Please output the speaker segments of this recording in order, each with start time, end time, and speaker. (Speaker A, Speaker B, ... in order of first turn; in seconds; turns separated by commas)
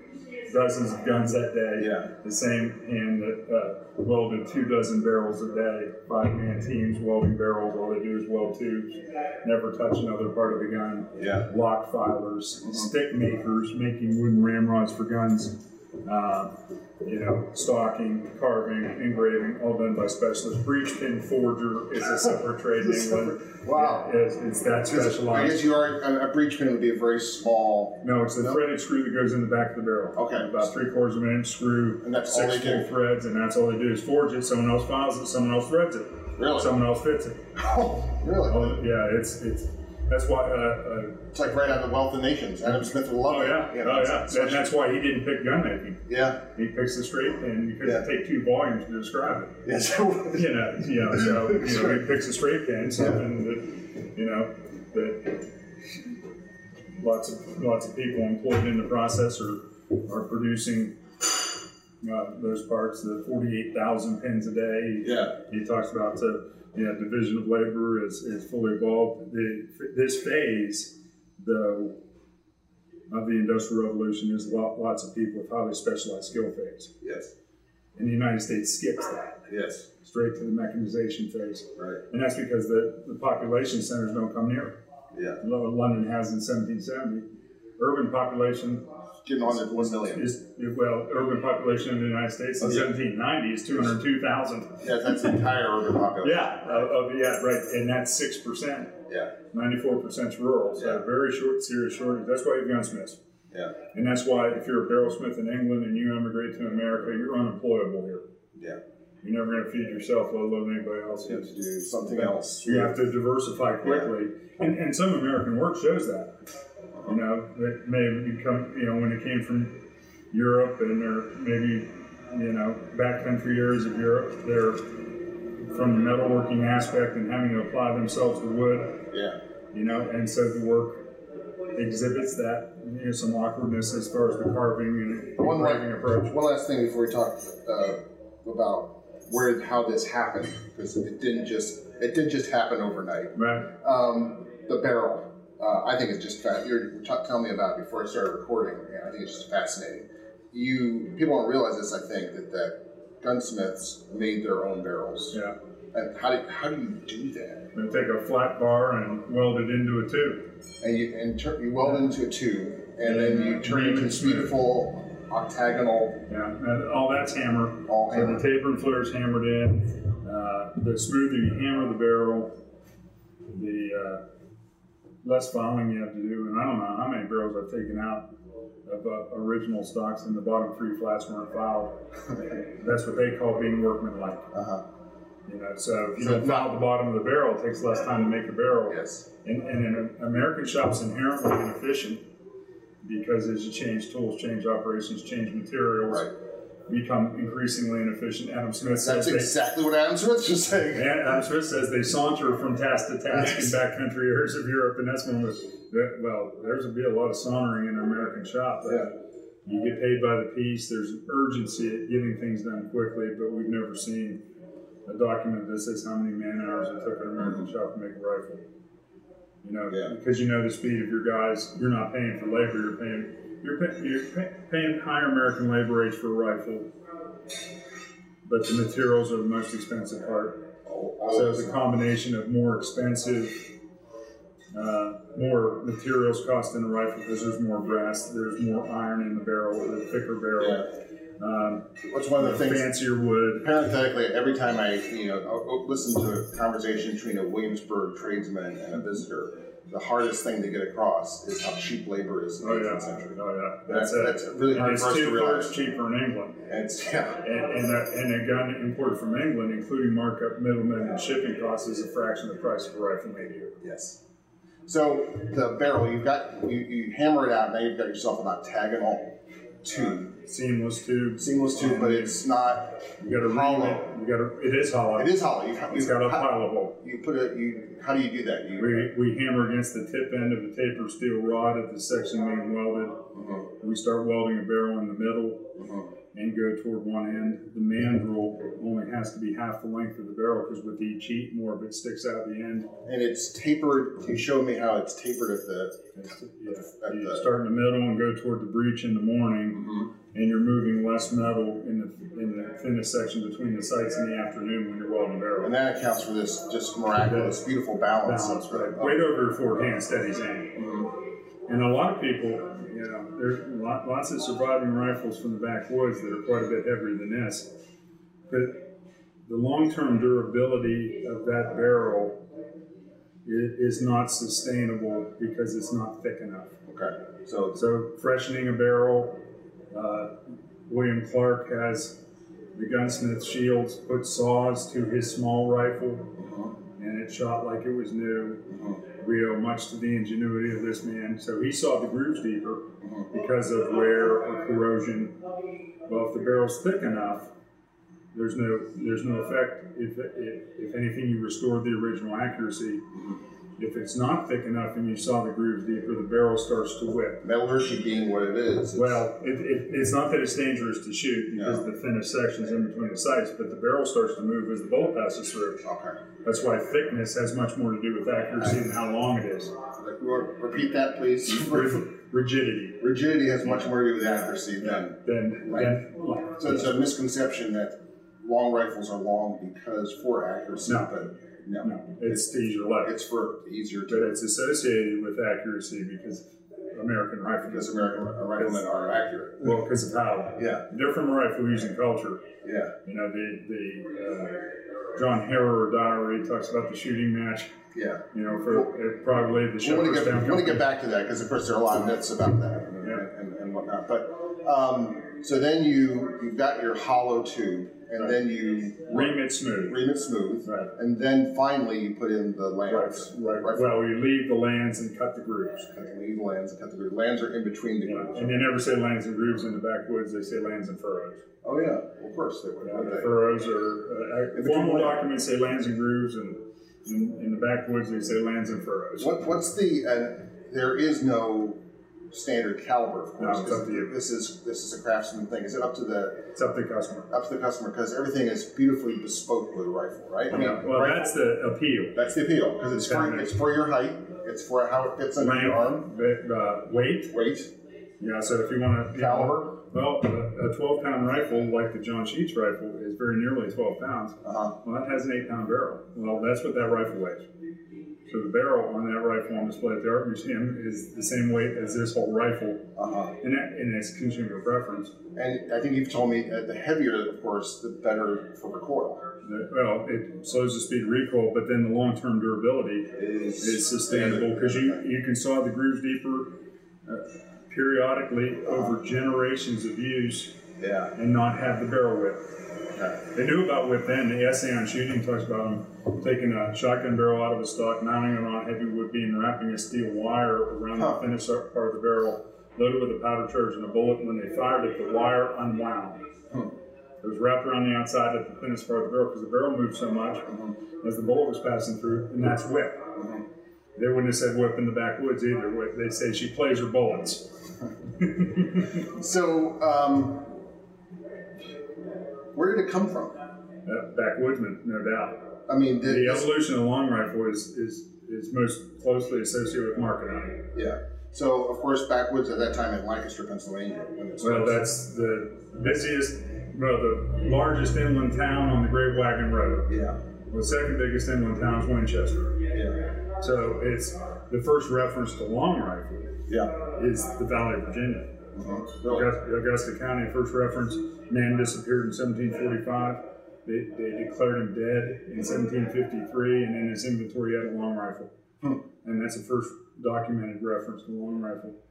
Speaker A: 0.5-25.6, Speaker B: 1.8-2.0, Speaker B: 11.2-11.4, Speaker B: 22.8-24.1, Speaker B: 24.8-28.6, Speaker A: 28.0-37.4, Speaker B: 30.1-30.7, Speaker B: 32.0-32.9, Speaker B: 36.4-36.7, Speaker B: 37.5-38.8, Speaker A: 38.5-41.3, Speaker B: 41.3-44.7, Speaker A: 43.3-49.6, Speaker B: 46.1-46.4, Speaker B: 49.6-50.5, Speaker A: 50.3-55.5, Speaker B: 51.1-52.0, Speaker A: 57.0-61.0, Speaker A: 62.0-72.0, Speaker B: 65.0-65.3, Speaker A: 73.1-76.9, Speaker B: 77.0-77.3, Speaker A: 78.0-79.4, Speaker B: 79.5-79.8, Speaker A: 80.0-84.8, Speaker B: 85.1-85.4, Speaker A: 85.4-87.2, Speaker A: 87.8-88.8, Speaker B: 89.2-90.2, Speaker A: 89.5-94.8, Speaker B: 92.6-92.9, Speaker B: 94.8-96.9, Speaker A: 96.2-99.0, Speaker A: 99.5-103.2, Speaker B: 100.8-101.0, Speaker A: 103.9-108.2, Speaker A: 109.2-111.5, Speaker B: 111.2-113.0, Speaker A: 112.1-116.3, Speaker B: 113.8-114.1, Speaker A: 117.0-119.8, Speaker A: 120.3-124.9, Speaker A: 125.7-129.1, Speaker B: 129.1-129.4, Speaker A: 129.7-131.1, Speaker A: 131.7-136.3, Speaker B: 135.4-155.4, Speaker A: 143.3-143.7, Speaker B: 155.9-157.7, Speaker A: 157.7-160.4, Speaker B: 160.8-166.2, Speaker A: 163.0-164.5, Speaker A: 166.3-172.6, Speaker B: 167.8-168.4, Speaker A: 173.5-174.2, Speaker A: 175.2-178.3, Speaker A: 178.8-181.9, Speaker A: 182.6-184.5, Speaker B: 184.5-184.8, Speaker A: 185.4-192.2, Speaker B: 186.2-186.7, Speaker B: 188.9-189.2, Speaker A: 193.0-196.3, Speaker A: 196.9-199.5, Speaker B: 198.9-201.1, Speaker A: 200.9-209.1, Speaker B: 203.3-203.7, Speaker A: 209.6-214.4, Speaker A: 215.1-218.6, Speaker B: 217.4-217.7, Speaker A: 219.6-226.9, Speaker A: 228.4-230.6, Speaker B: 230.8-231.8, Speaker A: 231.3-233.7, Speaker A: 234.7-243.7, Speaker B: 240.6-240.8, Speaker B: 242.0-242.9, Speaker B: 243.6-255.7, Speaker A: 252.6-256.6, Speaker B: 256.7-257.4, Speaker A: 257.4-263.8, Speaker B: 263.8-264.2, Speaker B: 264.9-270.3, Speaker A: 270.4-272.4, Speaker B: 271.4-274.1, Speaker A: 273.2-275.3, Speaker B: 275.1-279.1, Speaker A: 275.9-276.9, Speaker A: 278.8-285.7, Speaker B: 283.3-283.6, Speaker B: 285.8-286.1, Speaker A: 286.3-292.9, Speaker B: 293.0-296.0, Speaker A: 296.1-305.7, Speaker B: 296.7-297.5, Speaker B: 305.6-309.2, Speaker A: 307.2-307.6, Speaker A: 308.2-311.1, Speaker B: 310.8-311.1, Speaker A: 311.7-317.7, Speaker A: 318.5-318.8, Speaker A: 319.5-322.4, Speaker A: 323.4-326.8, Speaker B: 326.9-327.8, Speaker A: 327.7-332.2, Speaker A: 332.7-336.4, Speaker B: 336.4-336.7, Speaker A: 337.0-345.4, Speaker B: 338.7-339.0, Speaker A: 346.1-347.5, Speaker A: 348.3-353.1, Speaker A: 353.8-357.4, Speaker B: 357.4-359.2, Speaker A: 358.9-365.8, Speaker B: 361.6-361.8, Speaker B: 365.8-366.2, Speaker A: 366.4-369.7, Speaker B: 369.9-372.0, Speaker A: 371.5-373.0, Speaker B: 373.0-375.9, Speaker A: 373.6-373.9, Speaker A: 374.8-376.9, Speaker B: 376.6-382.5, Speaker A: 381.8-383.1, Speaker B: 383.0-384.3, Speaker A: 384.1-388.8, Speaker B: 387.6-389.8, Speaker A: 389.6-392.4, Speaker B: 390.6-390.8, Speaker B: 392.6-392.9, Speaker A: 393.0-397.7, Speaker B: 397.9-398.9, Speaker A: 398.3-400.8, Speaker B: 399.8-414.0, Speaker A: 409.1-410.0, Speaker A: 410.6-410.9, Speaker A: 412.9-415.9, Speaker B: 415.9-418.7, Speaker A: 418.0-421.4, Speaker B: 421.6-423.4, Speaker A: 422.8-429.3, Speaker B: 424.5-425.2, Speaker B: 429.2-431.8, Speaker B: 432.3-436.5, Speaker A: 433.4-434.1, Speaker A: 436.5-437.3, Speaker B: 437.3-441.3, Speaker A: 440.5-442.2, Speaker B: 442.1-446.1, Speaker A: 443.0-443.5, Speaker A: 445.4-447.3, Speaker B: 447.3-447.7, Speaker A: 448.2-457.4, Speaker B: 449.1-449.7, Speaker B: 454.4-454.7, Speaker A: 458.3-465.1, Speaker B: 462.9-463.3, Speaker B: 465.3-469.2, Speaker A: 469.4-480.6, Speaker B: 473.1-475.0, Speaker B: 480.8-481.1, Speaker A: 481.1-482.5, Speaker A: 483.3-496.2, Speaker A: 497.2-503.2, Speaker B: 500.5-500.7, Speaker B: 503.2-503.4, Speaker A: 503.9-507.5, Speaker A: 508.2-508.9, Speaker B: 509.0-510.6, Speaker B: 512.5-513.4, Speaker A: 513.9-515.5, Speaker B: 515.7-516.5, Speaker A: 516.0-520.7, Speaker B: 520.7-524.9, Speaker A: 524.4-530.0, Speaker B: 529.9-530.2, Speaker A: 530.5-532.7, Speaker B: 532.7-533.0, Speaker A: 533.4-538.3, Speaker B: 538.5-539.3, Speaker A: 539.0-548.3, Speaker A: 549.0-551.8